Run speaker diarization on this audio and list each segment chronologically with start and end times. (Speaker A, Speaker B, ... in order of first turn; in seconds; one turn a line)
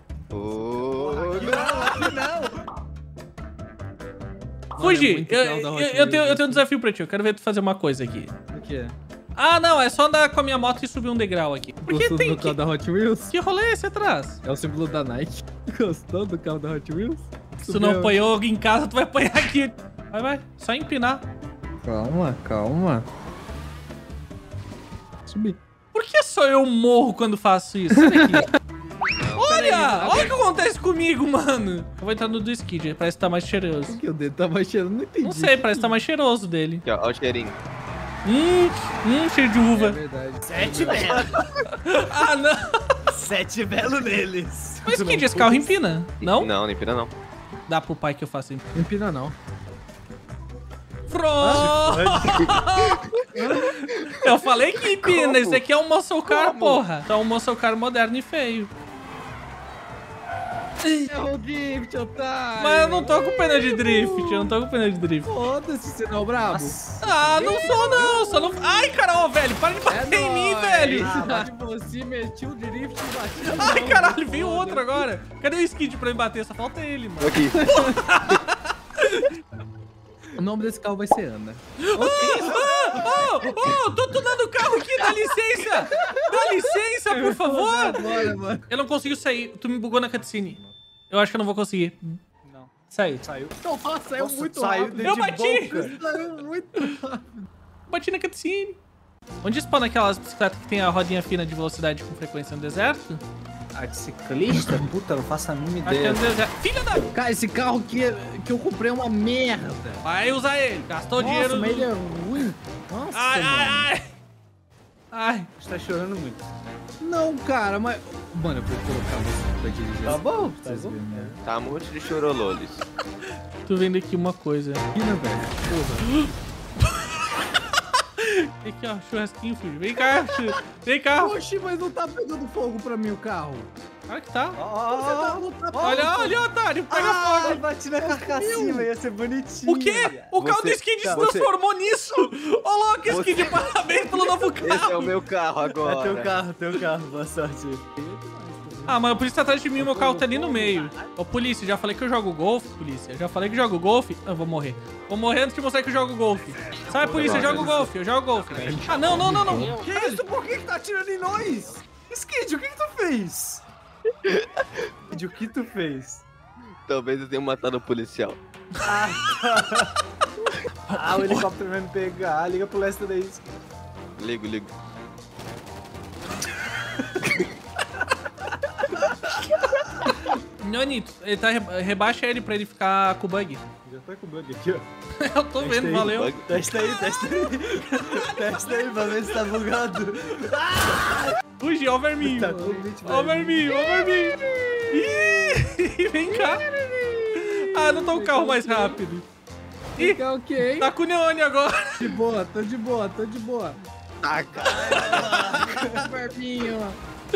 Speaker A: 0.3-2.2
Speaker B: 0.8-2.6
Speaker C: 4.8-6.7
Speaker D: 4.8-8.3
Speaker B: 8.5-8.9
Speaker D: 9.3-12.6
Speaker C: 11.8-13.3
Speaker D: 13.3-14.4
Speaker C: 14.4-18.2
Speaker D: 17.6-21.2
Speaker C: 21.9-23.1
Speaker C: 25.3-25.6
Speaker D: 25.9-28.5
Speaker C: 27.9-28.5
Speaker A: 29.2-29.5
Speaker D: 29.4-34.0
Speaker C: 29.4-30.4
Speaker C: 33.9-36.0
Speaker D: 35.2-36.9
Speaker A: 36.9-37.6
Speaker D: 38.2-40.0
Speaker C: 39.7-41.3
Speaker B: 40.5-41.3
Speaker A: 40.9-41.5
Speaker D: 41.8-42.9
Speaker B: 43.1-45.7
Speaker D: 44.8-46.5
Speaker A: 46.2-47.1
Speaker D: 47.7-48.6
Speaker C: 48.8-49.4
Speaker D: 51.1-58.7
Speaker B: 51.4-52.5
Speaker A: 52.4-54.2
Speaker A: 54.9-55.6
Speaker A: 56.3-56.8
Speaker C: 60.8-64.5
Speaker D: 62.6-65.3
Speaker C: 65.2-66.8
Speaker B: 66.5-68.1
Speaker D: 67.0-71.3
Speaker C: 67.4-68.3
Speaker C: 69.9-75.1
Speaker B: 71.0-71.5
Speaker D: 73.4-79.3
Speaker A: 77.2-77.6
Speaker C: 77.5-78.0
Speaker C: 80.4-82.6
Speaker D: 81.8-88.1
Speaker A: 82.5-83.0
Speaker B: 83.0-83.3
Speaker C: 85.0-85.2
Speaker C: 85.8-88.7
Speaker D: 88.7-92.2
Speaker B: 90.1-90.7
Speaker B: 92.4-93.5
Speaker D: 92.9-93.2
Speaker C: 93.6-95.2
Speaker B: 94.2-96.0
Speaker D: 95.0-96.0
Speaker C: 95.7-97.3
Speaker D: 97.9-98.8
Speaker D: 99.4-103.2
Speaker B: 103.7-106.2
Speaker D: 105.8-107.1
Speaker C: 107.1-110.0
Speaker D: 110.0-111.9
Speaker C: 111.2-113.9
Speaker D: 113.1-114.2
Speaker D: 115.1-115.5
Speaker B: 115.6-116.5
Speaker C: 117.0-121.3
Speaker B: 120.0-121.4
Speaker A: 121.5-122.9
Speaker D: 123.6-124.9
Speaker C: 124.9-126.1
Speaker D: 126.0-126.3
Speaker D: 126.8-127.6
Speaker D: 128.2-131.3
Speaker C: 130.2-130.5
Speaker C: 131.2-133.8
Speaker D: 134.1-134.6
Speaker B: 134.6-140.3
Speaker C: 134.9-136.1
Speaker D: 135.8-137.6
Speaker C: 138.0-138.9
Speaker D: 139.7-145.1
Speaker A: 140.4-141.5
Speaker B: 141.0-141.3
Speaker A: 143.1-143.7
Speaker A: 144.6-146.3
Speaker B: 145.7-149.2
Speaker D: 148.9-160.2
Speaker C: 149.8-150.7
Speaker B: 149.9-151.0
Speaker B: 156.9-157.9
Speaker A: 157.1-157.8
Speaker C: 158.5-159.8
Speaker B: 159.8-163.6
Speaker A: 164.3-164.8
Speaker B: 165.1-166.2
Speaker A: 166.9-168.4
Speaker B: 168.8-169.9
Speaker D: 170.9-171.5
Speaker B: 170.9-173.5
Speaker A: 174.2-174.7
Speaker D: 180.6-183.6
Speaker B: 183.8-184.9
Speaker D: 185.2-187.2
Speaker B: 185.6-191.4
Speaker A: 186.1-186.5
Speaker D: 187.7-189.4
Speaker D: 191.6-194.4
Speaker B: 192.2-193.7
Speaker C: 192.4-192.8
Speaker C: 193.7-195.6
Speaker D: 194.9-196.7
Speaker C: 196.3-199.0
Speaker D: 197.4-199.3
Speaker C: 200.0-200.9
Speaker D: 200.8-202.1
Speaker C: 202.0-203.8
Speaker A: 204.2-205.5
Speaker B: 204.6-206.0
Speaker C: 205.6-207.0